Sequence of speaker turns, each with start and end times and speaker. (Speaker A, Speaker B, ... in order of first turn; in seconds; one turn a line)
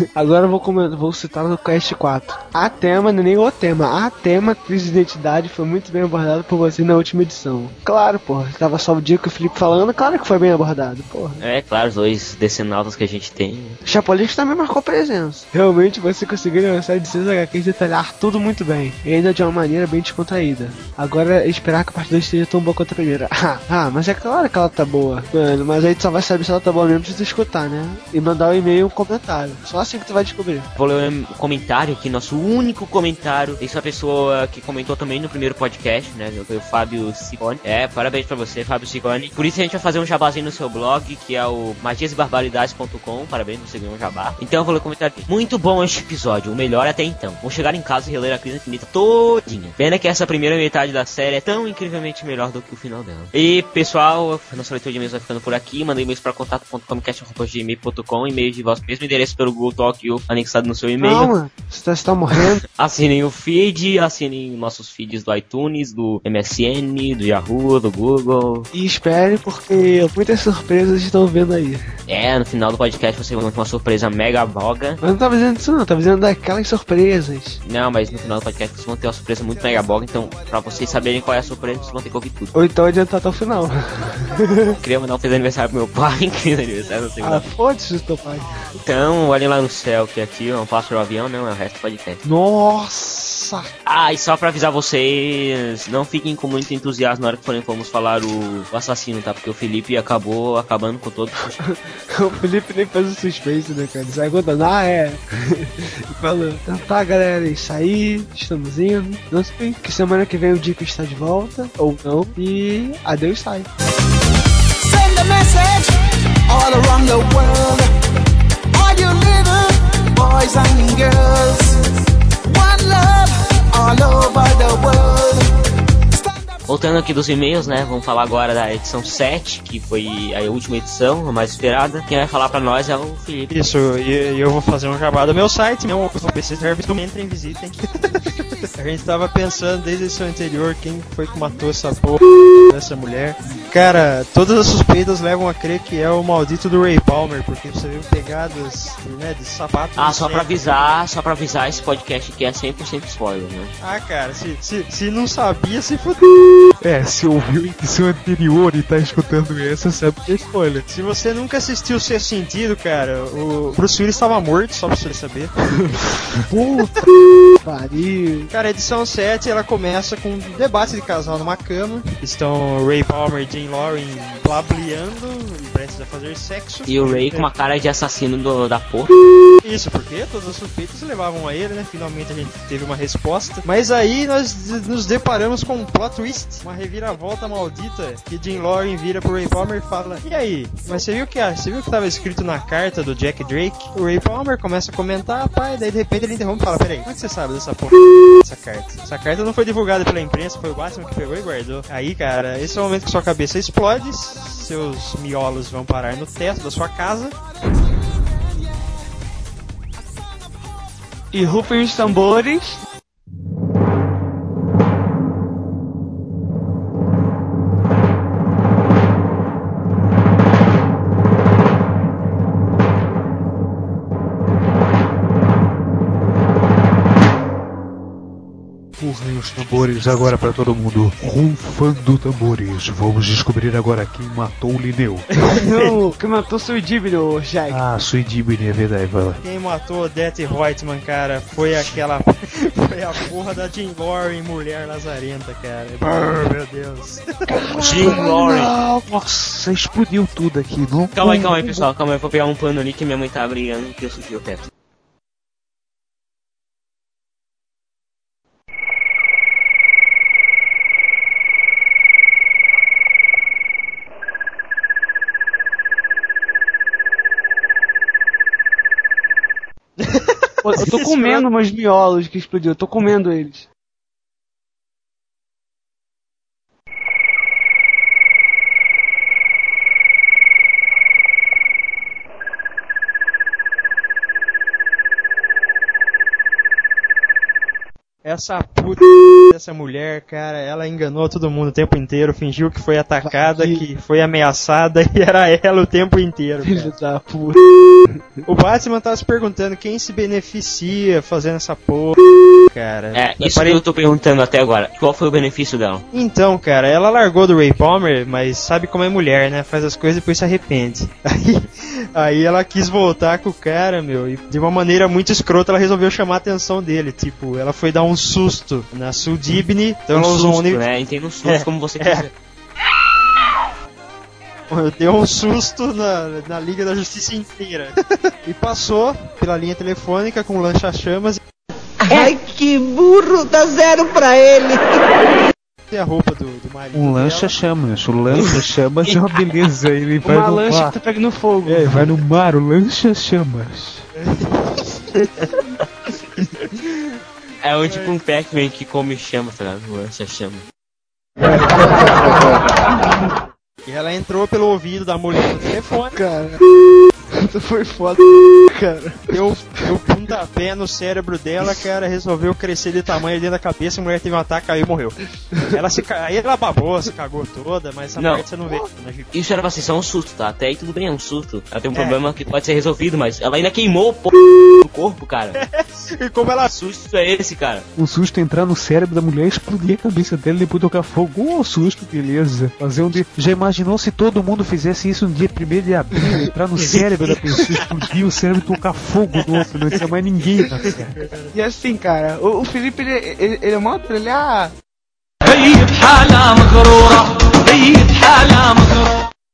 Speaker A: 0.1-11.4
Speaker B: 11.4-13.8
Speaker A: 13.8-30.7
Speaker B: 30.8-61.3
Speaker A: 61.0-62.6
Speaker B: 62.4-68.7
Speaker A: 68.7-71.8
Speaker B: 72.1-75.0
Speaker A: 75.0-77.6
Speaker B: 77.6-82.5
Speaker A: 82.5-84.7
Speaker B: 84.8-87.4
Speaker A: 87.2-88.5
Speaker B: 88.8-92.2
Speaker A: 92.2-93.7
Speaker B: 93.8-101.6
Speaker A: 101.7-113.7
Speaker C: 114.8-115.9
Speaker C: 116.5-117.9
Speaker C: 118.7-121.8
Speaker C: 122.5-125.5
Speaker B: 126.7-133.5
Speaker D: 133.5-150.9
Speaker B: 150.0-153.7
Speaker D: 153.8-156.2
Speaker E: 156.8-160.9
Speaker D: 160.9-165.5
Speaker A: 166.5-167.0
Speaker A: 167.6-168.5
Speaker D: 168.5-177.5
Speaker B: 176.9-179.1
Speaker D: 179.6-207.3
Speaker A: 211.3-212.8
Speaker E: 229.0-235.3
Speaker D: 235.4-235.9
Speaker A: 235.6-237.8
Speaker E: 237.7-239.4
Speaker D: 239.4-247.2
Speaker A: 247.5-249.0
Speaker B: 247.7-248.8
Speaker E: 248.0-248.3
Speaker E: 249.0-251.8
Speaker B: 251.1-254.7
Speaker D: 270.0-271.4
Speaker A: 270.6-273.7
Speaker D: 288.2-296.9
Speaker A: 293.2-293.8
Speaker A: 296.6-298.2
Speaker D: 298.5-303.8
Speaker B: 303.1-306.0
Speaker D: 306.1-320.8
Speaker B: 320.1-322.3
Speaker D: 321.4-322.2
Speaker D: 324.7-331.4
Speaker F: 332.0-334.9
Speaker D: 335.9-337.5
Speaker E: 336.9-341.0
Speaker A: 340.2-342.0
Speaker E: 341.6-344.0
Speaker D: 344.2-345.5
Speaker B: 347.6-350.6
Speaker D: 347.9-348.1
Speaker D: 353.9-356.2
Speaker A: 356.1-356.6
Speaker A: 357.4-359.8
Speaker D: 359.3-369.3
Speaker B: 368.2-368.5
Speaker B: 369.3-375.6
Speaker D: 371.9-372.3
Speaker D: 375.6-376.7
Speaker B: 376.6-377.9
Speaker E: 378.0-391.2
Speaker D: 389.6-390.0
Speaker D: 390.9-391.5
Speaker A: 391.5-394.7
Speaker F: 395.4-399.1